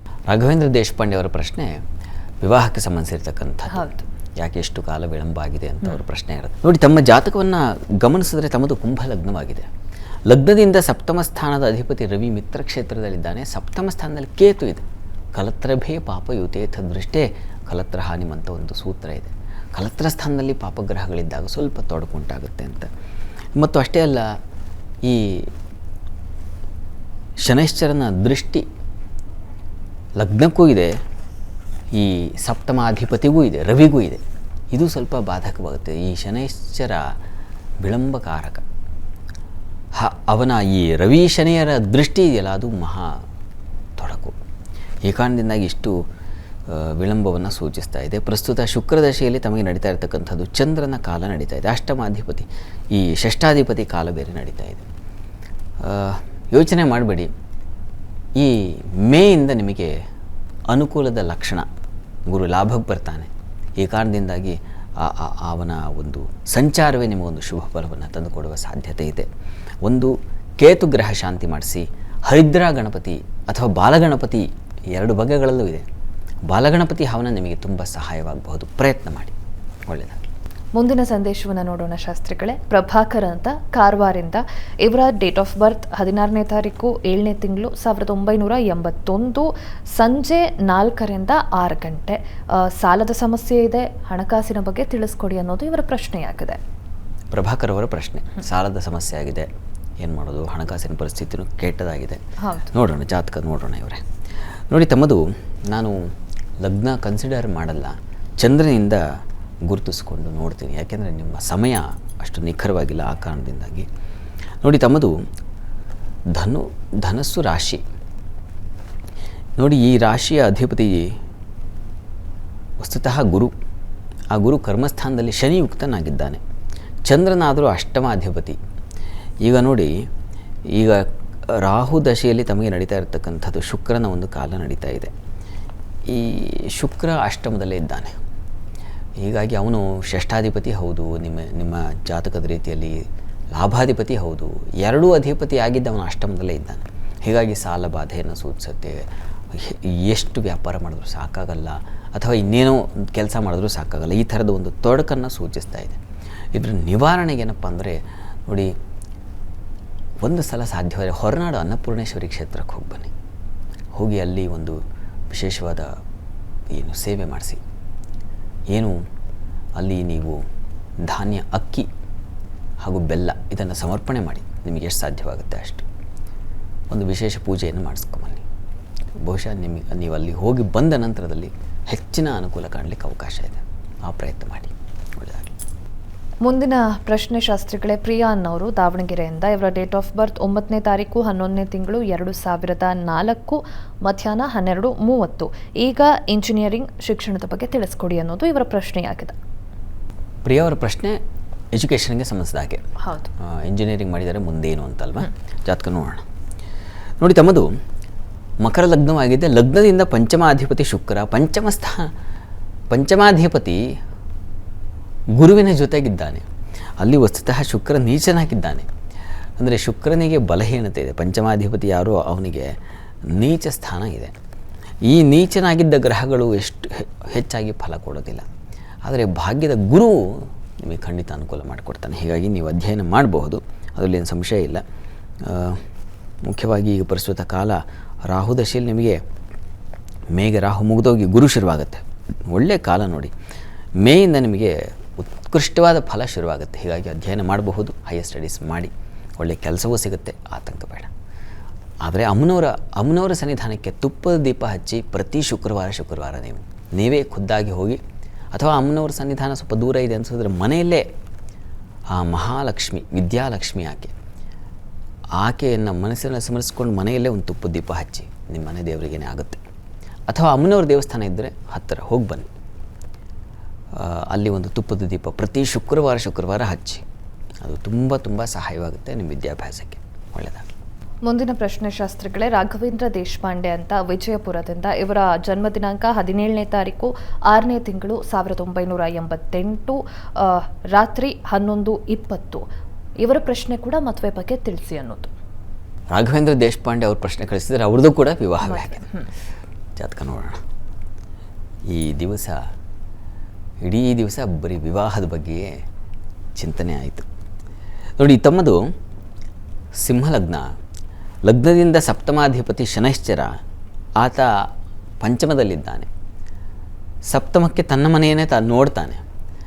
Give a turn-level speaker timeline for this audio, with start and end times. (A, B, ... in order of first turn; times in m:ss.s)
0:00.3-0:01.8 A
0:02.4-0:09.7 A
0:03.7-0:04.0 B
0:10.3-0:14.8 A
0:15.3-0:22.9 A
0:23.6-0:24.3 A
0:25.0-0:25.5 A
0:27.4-0:28.6 A
0:30.2-0:30.9 A
0:31.9-0:37.0 A
0:37.8-0:38.6 A
0:39.9-0:43.1 A
0:44.0-0:44.3 A
0:45.0-0:45.9 A
0:46.7-0:54.9 A
0:55.8-0:57.3 A
0:58.4-0:59.9 A
1:00.7-1:01.6 A
1:02.3-1:09.3 A
1:09.8-1:15.8 A
1:16.5-1:19.3 A
1:19.9-1:20.3 A
1:20.8-1:36.6 B
1:37.3-1:39.5 A
1:40.0-1:42.2 A
1:42.4-1:42.7 B
1:42.7-1:44.0 A
1:44.7-1:46.0 A
1:46.6-1:49.0 A
1:49.7-1:53.9 A
1:54.6-1:55.1 A
1:56.3-1:57.8 A
1:59.6-2:01.1 A
2:02.8-2:03.5 A
2:04.3-2:06.4 A
2:07.1-2:08.6 A
2:09.4-2:09.9 A
2:10.7-2:11.0 A
2:11.5-2:15.1 A
2:16.1-2:18.2 A
2:19.2-2:36.0 A
2:36.5-2:38.7 A
2:40.2-2:43.1 A
2:43.9-2:44.8 A
2:45.3-2:45.9 A
2:46.7-2:47.6 A
2:48.7-2:49.0 A
2:49.8-2:50.4 A
2:51.0-2:51.9 A
2:52.8-2:55.8 A
2:56.9-2:58.4 A
2:59.2-3:05.5 A
3:06.4-3:19.4 B
3:20.4-3:21.2 A
3:21.7-3:22.9 A
3:23.0-3:23.3 B
3:23.4-3:26.2 A
3:27.2-3:27.7 A
3:28.6-3:32.1 A
3:32.9-3:33.8 A
3:35.4-3:36.4 A
3:37.0-3:38.9 A
3:39.6-3:42.7 A
3:43.3-3:44.3 A
3:45.0-3:48.5 A
3:49.0-3:54.8 A
3:55.4-3:55.8 A
3:56.4-3:59.2 A
4:00.3-4:03.3 A
4:04.0-4:11.1 A
4:12.0-4:18.0 A
4:18.5-4:21.0 A
4:22.1-4:24.1 A
4:25.4-4:29.6 A
4:30.3-4:32.5 A
4:33.9-4:37.0 A
4:37.6-4:40.7 A
4:41.2-4:52.6 B
4:53.2-4:55.3 B
4:56.1-4:59.1 A
4:58.6-4:59.3 B
5:00.0-5:00.6 A
5:01.9-5:02.6 A
5:03.8-5:05.7 A
5:06.6-5:07.2 A
5:08.2-5:08.9 A
5:10.0-5:10.6 A
5:11.4-5:13.5 A
5:14.2-5:14.5 A
5:15.2-5:16.1 A
5:17.3-5:19.2 A